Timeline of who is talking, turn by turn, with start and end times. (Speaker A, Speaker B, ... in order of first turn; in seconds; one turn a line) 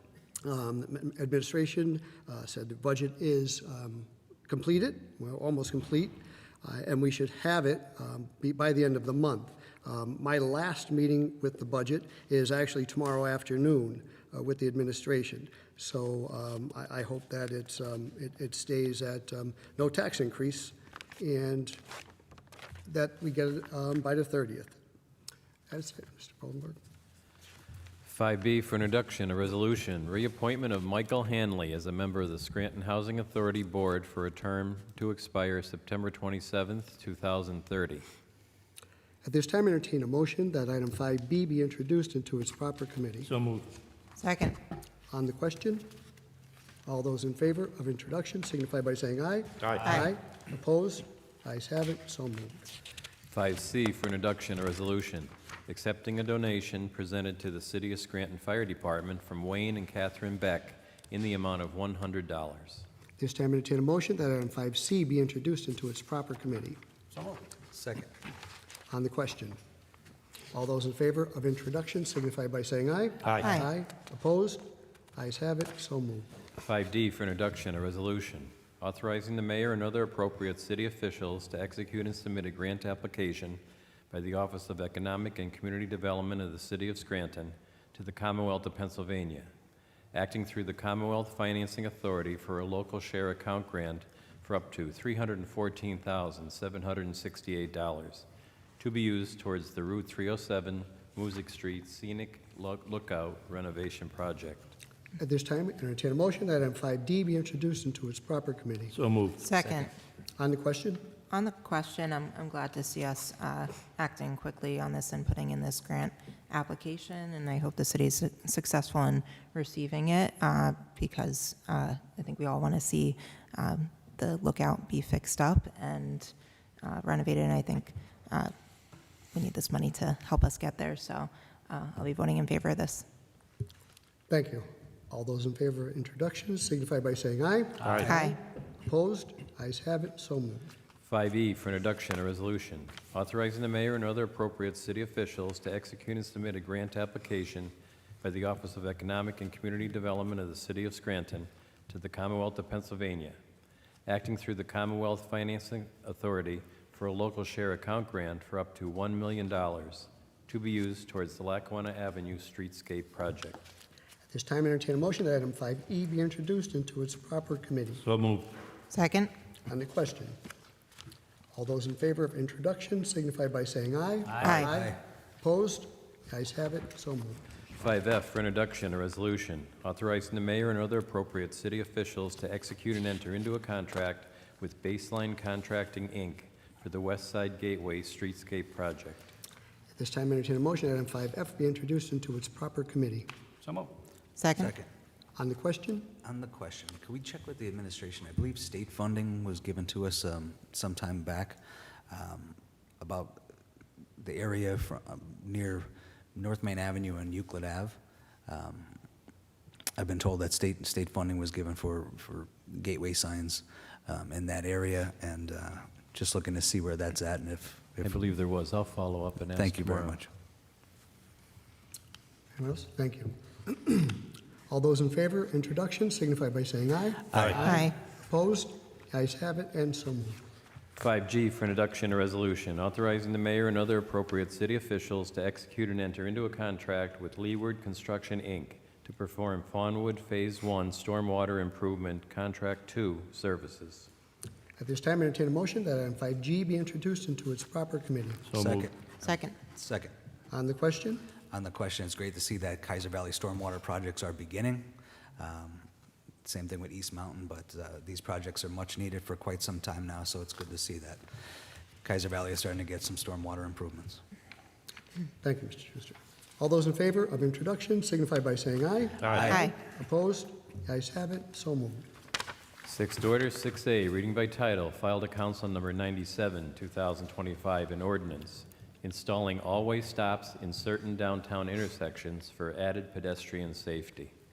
Speaker A: 0.4-21.8
Speaker A: 22.9-24.8
Speaker A: 25.7-26.8
Speaker B: 28.1-38.0
Speaker A: 39.2-43.3
Speaker C: 43.3-43.7
Speaker D: 44.2-44.6
Speaker A: 45.1-45.9
Speaker A: 46.9-52.6
Speaker C: 49.6-49.9
Speaker B: 53.3-62.9
Speaker A: 63.2-66.8
Speaker E: 67.6-68.1
Speaker A: 68.9-69.6
Speaker A: 70.5-76.3
Speaker D: 73.4-73.7
Speaker B: 76.6-89.5
Speaker B: 90.1-98.2
Speaker B: 98.8-104.7
Speaker A: 105.2-108.9
Speaker C: 108.9-109.4
Speaker D: 109.4-109.9
Speaker A: 110.4-111.0
Speaker D: 111.3-128.5
Speaker D: 129.3-133.1
Speaker A: 134.3-140.7
Speaker C: 137.8-138.1
Speaker D: 138.0-138.4
Speaker B: 141.0-153.4
Speaker B: 154.1-163.6
Speaker A: 164.3-168.0
Speaker C: 168.1-168.5
Speaker D: 168.9-169.3
Speaker A: 169.7-170.4
Speaker A: 171.5-177.4
Speaker D: 174.4-174.7
Speaker B: 177.8-189.2
Speaker A: 190.0-193.3
Speaker C: 193.6-193.9
Speaker D: 194.4-194.7
Speaker E: 194.6-194.9
Speaker A: 195.4-196.1
Speaker E: 196.2-203.5
Speaker E: 204.2-209.0
Speaker E: 210.0-218.2
Speaker B: 218.0-220.2
Speaker E: 219.6-220.3
Speaker A: 222.6-230.4
Speaker C: 227.3-227.6
Speaker D: 227.6-227.9
Speaker B: 231.0-244.1
Speaker A: 244.8-248.4
Speaker C: 248.5-248.9
Speaker E: 248.6-250.1
Speaker D: 249.2-249.6
Speaker A: 250.5-251.3
Speaker E: 251.5-255.9
Speaker E: 256.4-261.2
Speaker E: 262.0-264.2
Speaker A: 265.4-272.1
Speaker C: 269.2-269.5
Speaker E: 269.2-269.7
Speaker B: 272.9-284.3